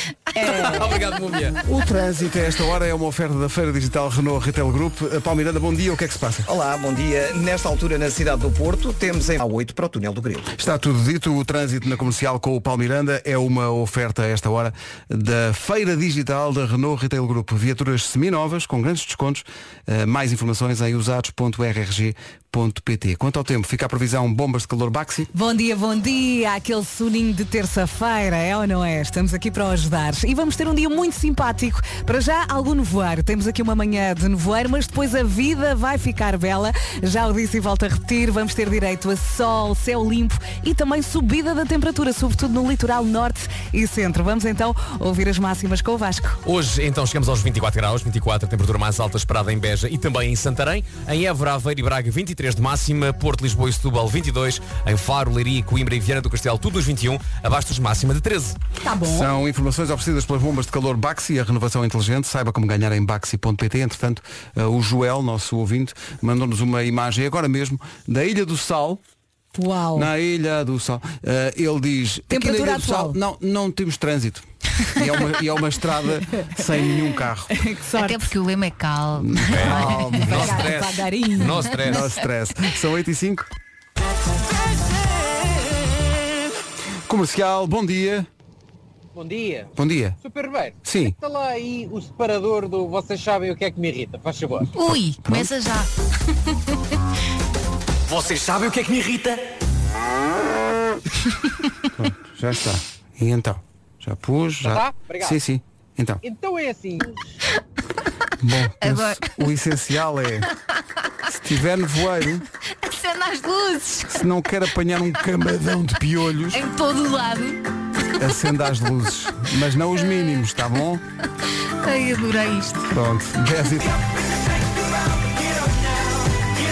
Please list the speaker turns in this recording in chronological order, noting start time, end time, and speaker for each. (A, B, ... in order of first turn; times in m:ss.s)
0:00.3-0:00.8 A
0:00.4-0:01.6 B
0:01.6-0:06.5 C
0:06.4-0:10.5 D
0:10.6-0:25.3 C
0:25.3-0:46.4 E
0:46.4-0:58.6 B
0:58.8-0:59.3 E
0:59.0-1:09.0 C
1:09.5-1:10.1 E
1:09.9-1:17.5 C
1:12.3-1:13.2 E
1:17.5-1:18.3 E
1:17.9-1:20.2 A
1:19.2-1:20.8 C
1:19.5-1:22.1 B
1:19.6-1:21.9 E
1:21.8-1:23.5 C
1:27.1-1:28.3 C
1:29.1-1:34.7 F
1:29.8-1:30.2 C
1:30.8-1:31.1 C
1:34.7-1:35.9 A
1:34.9-1:35.5 C
1:38.1-1:39.4 B
1:42.0-1:46.2 C
1:44.6-1:45.4 F
1:46.2-1:47.2 F
1:48.4-1:50.5 C
1:48.8-1:49.3 A
1:51.3-1:52.4 C
1:52.7-1:54.1 A
1:54.1-1:56.6 C
1:56.5-1:57.6 A
1:58.2-2:01.0 C
2:01.8-2:02.9 A
2:02.9-2:04.0 C